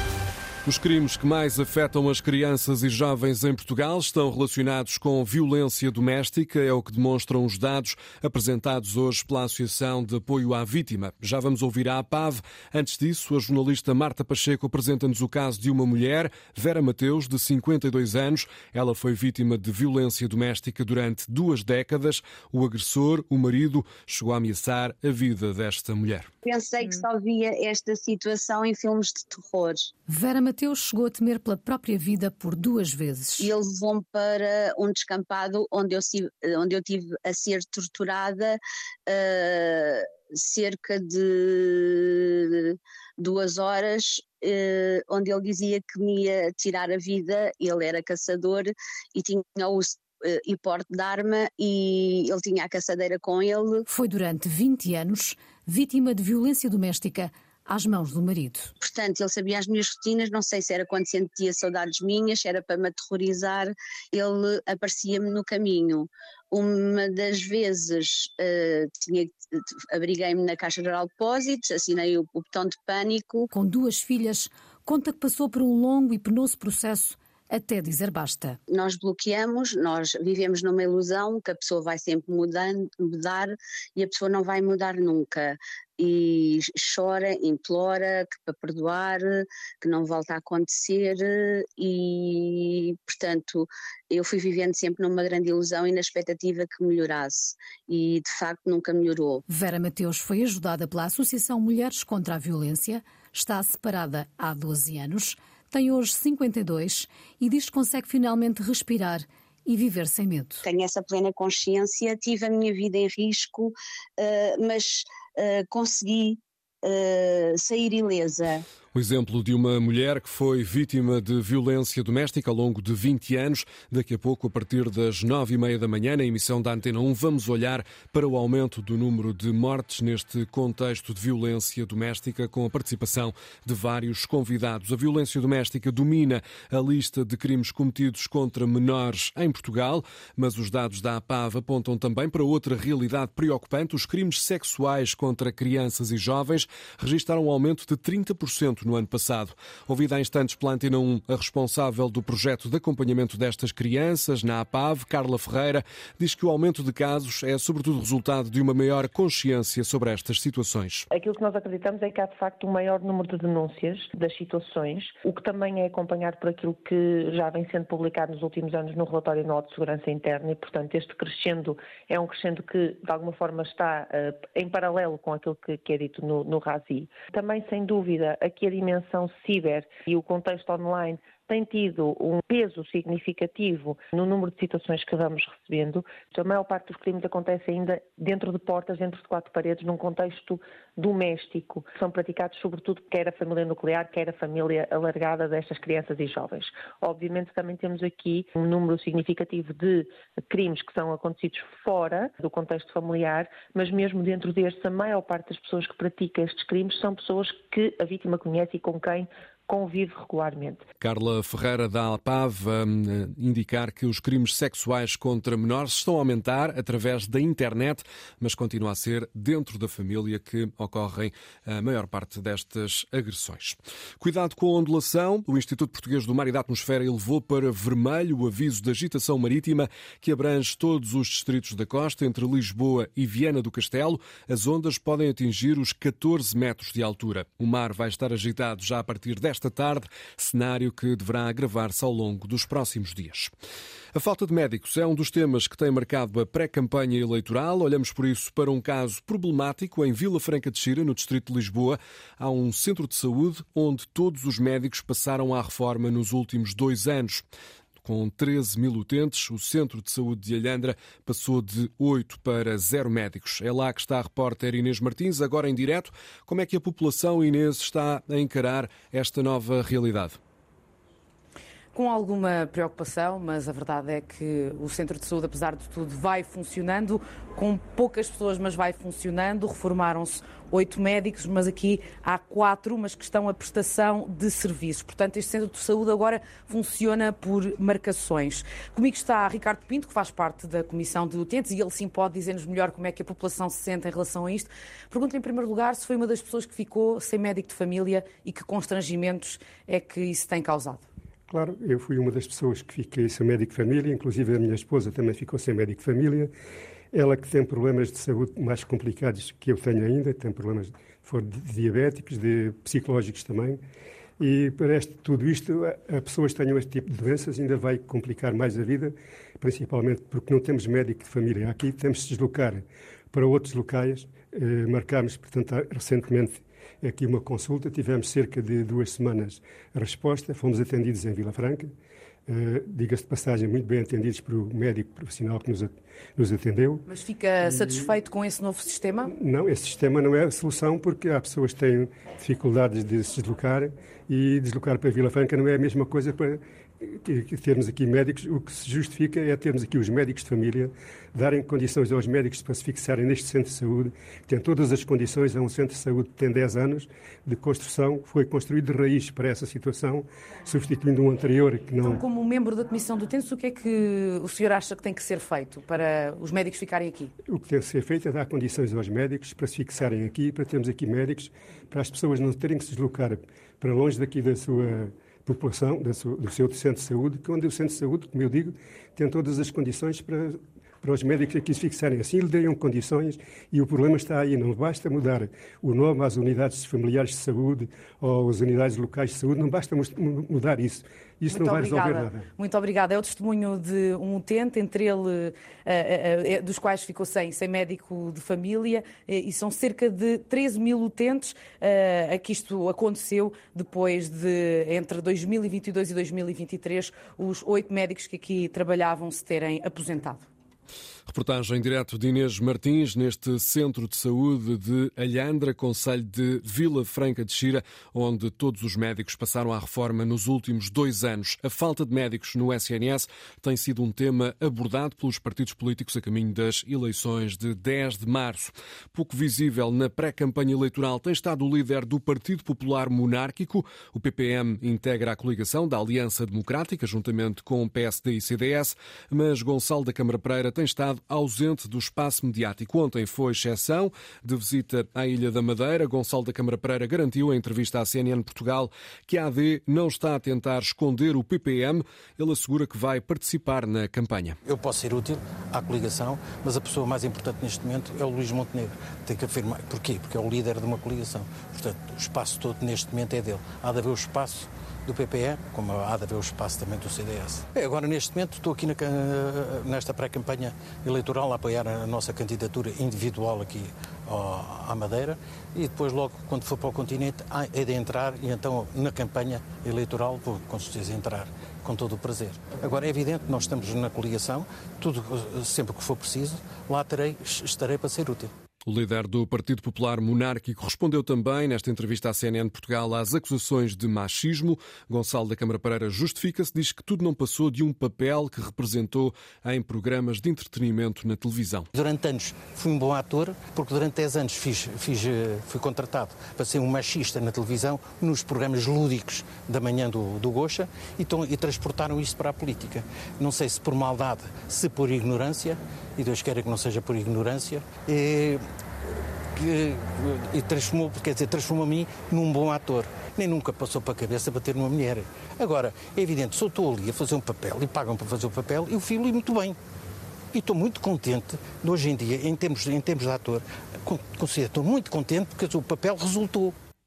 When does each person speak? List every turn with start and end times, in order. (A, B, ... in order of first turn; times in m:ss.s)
0:00.6-0:26.3 A
0:26.4-0:29.9 B
0:30.1-0:33.5 C
0:33.4-0:53.8 B
0:53.9-0:58.7 C
0:58.8-1:13.5 B
1:13.5-1:18.6 C
1:18.7-1:39.4 B
1:39.5-1:50.6 C
1:50.6-1:58.6 B
1:58.9-2:41.1 A
2:41.1-3:30.8 D
3:31.0-4:03.5 A
4:04.1-4:17.4 A
4:18.0-4:30.4 A
4:31.9-5:01.0 E
5:01.5-5:06.5 F
5:07.1-5:13.8 F
5:14.4-5:31.9 F
5:32.5-5:37.1 F
5:37.1-5:39.3 E
5:39.3-6:02.2 F
6:02.0-6:07.3 E
6:07.5-6:32.5 F
6:31.5-6:50.5 E
6:51.3-7:34.6 A
7:34.7-8:08.5 G
8:08.9-8:21.9 A
8:21.9-8:38.6 G
8:39.6-8:49.8 G
8:50.5-8:56.8 G